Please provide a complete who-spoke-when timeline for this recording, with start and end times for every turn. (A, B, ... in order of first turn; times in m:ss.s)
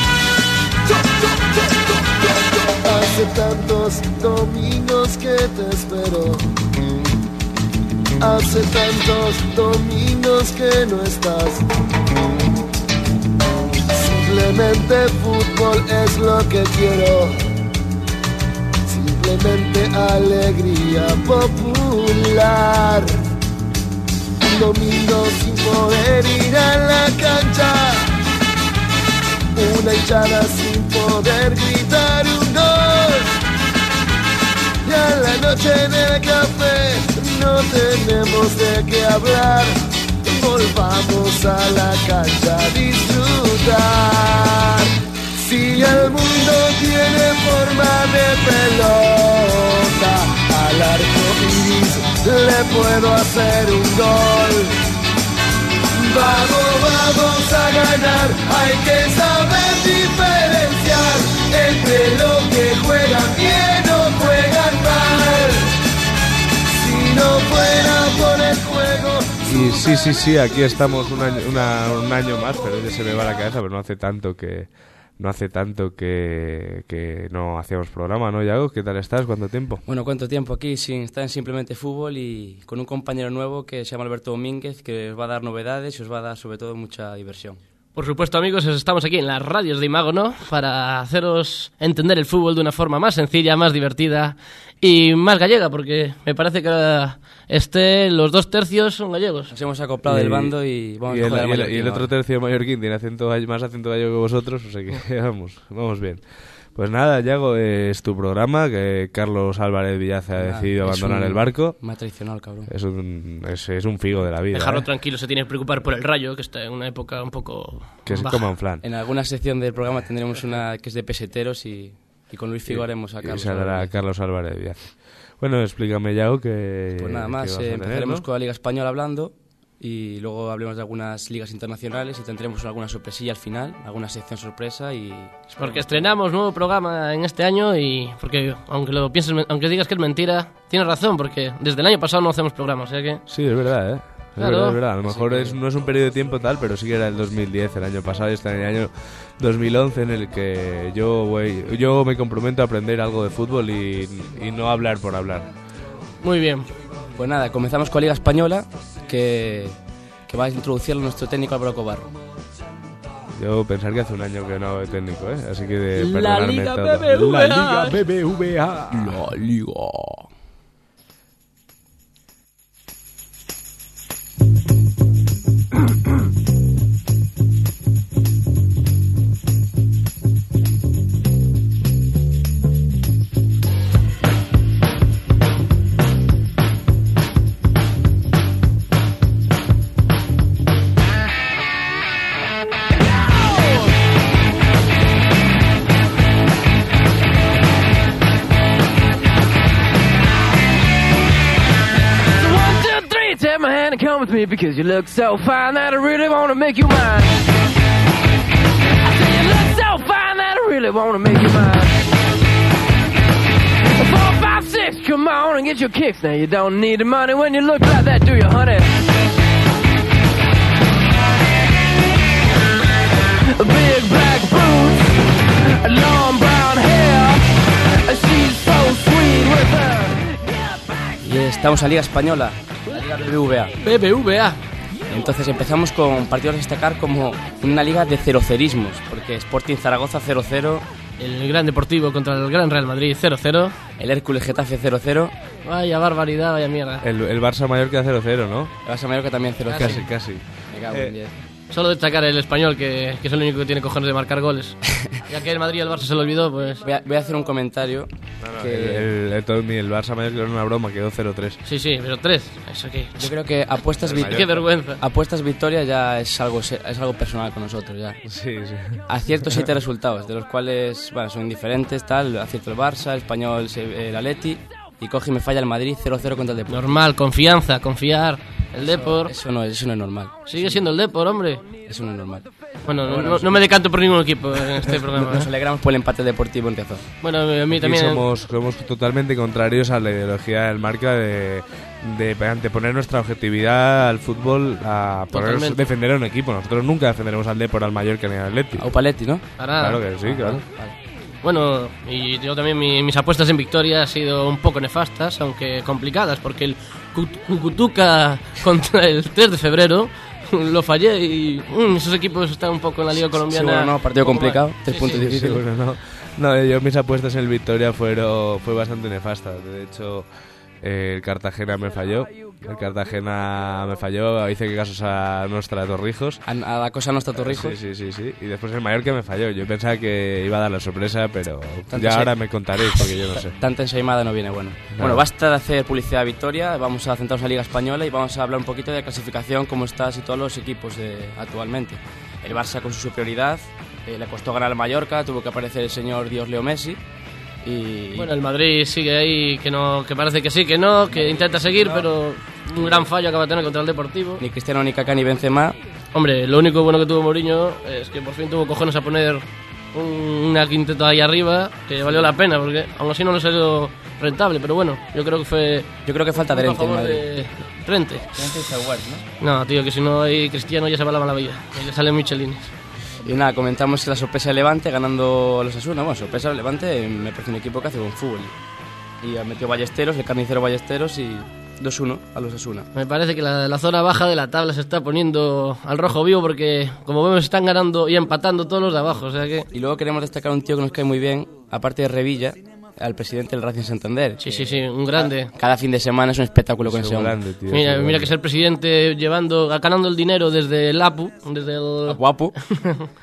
0:00.9-0:06.5 A
0:08.2-0:11.7 A
0:13.9-0:17.4 A
0:18.9-0:23.2 A
0:24.4-0:28.1 A
0:29.6-0:33.4 A
0:34.8-0:54.8 A
0:55.9-1:05.8 A
1:06.7-1:09.4 A
1:09.5-1:19.8 B
1:19.9-1:27.6 C
1:28.0-1:39.5 D
1:39.5-1:42.1 C
1:40.1-1:40.5 B
1:41.1-1:46.2 B
1:46.8-1:51.8 B
1:50.4-1:52.7 C
1:52.7-1:54.8 B
1:54.5-1:58.5 D
1:58.1-1:58.8 B
1:58.8-2:03.9 C
2:02.7-2:08.2 B
2:07.0-2:15.9 C
2:15.6-2:23.2 D
2:23.3-2:35.5 B
2:24.4-2:24.8 D
2:25.1-2:25.6 C
2:36.2-2:36.7 D
2:37.2-2:42.1 C
2:43.3-2:49.3 B
2:46.1-2:48.0 C
2:48.9-2:50.3 C
3:22.4-3:27.4 E
3:29.0-3:32.0 E
3:34.0-3:39.0 E
3:43.6-3:47.5 E
3:48.0-3:50.3 E
3:51.2-3:53.7 C
3:53.8-3:54.6 D
3:55.1-4:00.8 C
4:01.2-4:03.8 D
4:04.0-4:05.3 C
4:05.6-4:07.0 D
4:07.0-4:08.7 B
4:08.8-4:10.0 C
4:09.7-4:10.0 D
4:09.8-4:11.2 B
4:10.7-4:11.3 C
4:11.7-4:16.8 D
4:16.8-4:19.1 C
4:18.4-4:21.6 B
4:21.6-4:23.3 D
4:23.2-4:28.2 C
4:24.0-4:24.6 B
4:24.1-4:25.0 D
4:28.2-4:29.0 B
4:29.1-4:37.0 C
4:36.7-4:39.3 D
4:38.9-4:40.8 C
4:40.5-4:41.6 D
4:41.8-4:42.5 C
4:42.9-4:45.5 D
4:43.0-4:43.6 C
4:44.8-4:47.0 C
4:47.2-4:48.2 D
4:47.7-4:59.0 B
4:55.3-4:55.8 D
4:58.8-4:59.4 C
4:59.6-5:00.0 D
4:59.8-5:00.6 B
5:00.2-5:00.9 C
5:01.4-5:15.2 D
5:13.2-5:15.6 C
5:15.0-5:20.3 B
5:20.8-5:26.4 B
5:26.5-5:27.8 C
5:27.4-5:33.6 B
5:31.9-5:32.3 C
5:32.9-5:47.0 C
5:34.9-5:35.3 B
5:47.6-5:48.3 C
5:48.2-5:54.4 D
5:51.1-5:52.0 C
5:54.4-5:55.8 C
5:56.1-6:08.3 D
6:06.1-6:07.2 C
6:08.4-6:09.2 C
6:09.4-6:12.7 D
6:13.2-6:18.5 C
6:19.2-6:22.9 C
6:22.9-6:29.7 D
6:29.7-6:37.4 C
6:34.4-6:35.5 D
6:36.8-6:38.4 B
6:37.7-6:43.1 D
6:42.1-6:42.6 C